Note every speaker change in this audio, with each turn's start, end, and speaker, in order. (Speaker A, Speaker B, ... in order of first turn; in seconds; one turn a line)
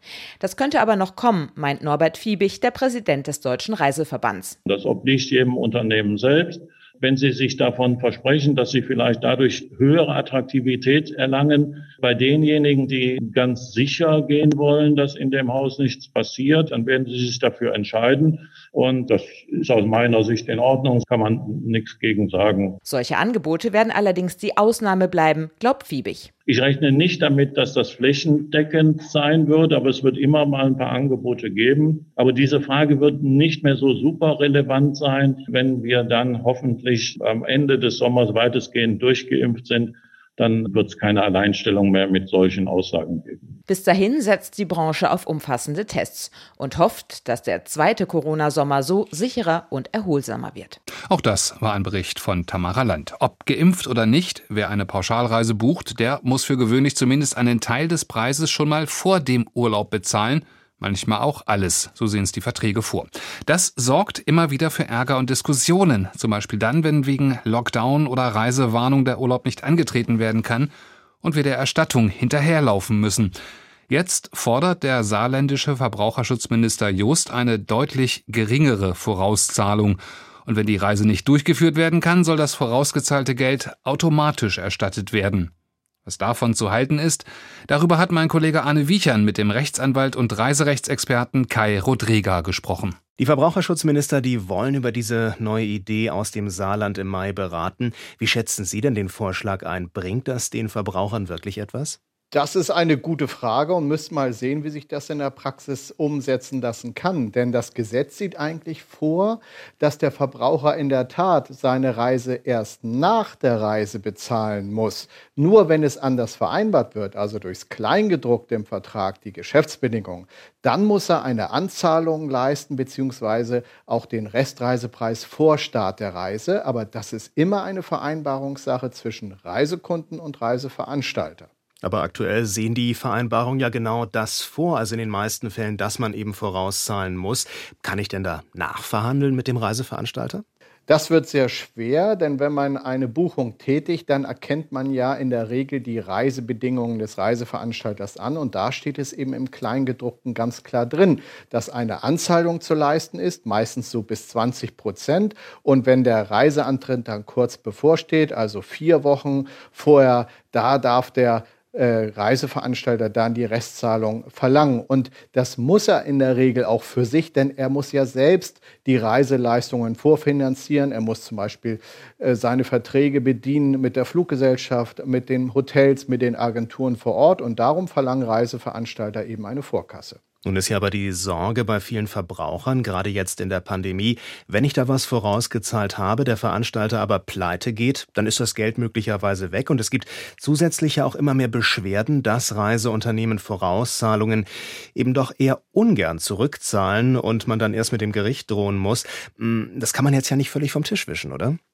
Speaker A: 0.4-4.6
Speaker B: 4.7-22.8
Speaker A: 22.8-26.3
Speaker B: 26.5-43.4
Speaker A: 43.7-50.8
Speaker C: 51.1-73.3
Speaker C: 73.9-85.5
Speaker C: 86.0-93.0
Speaker D: 93.2-102.0
Speaker E: 102.3-131.5
Speaker D: 131.8-140.4
Speaker E: 140.9-180.2
Speaker D: 180.4-201.6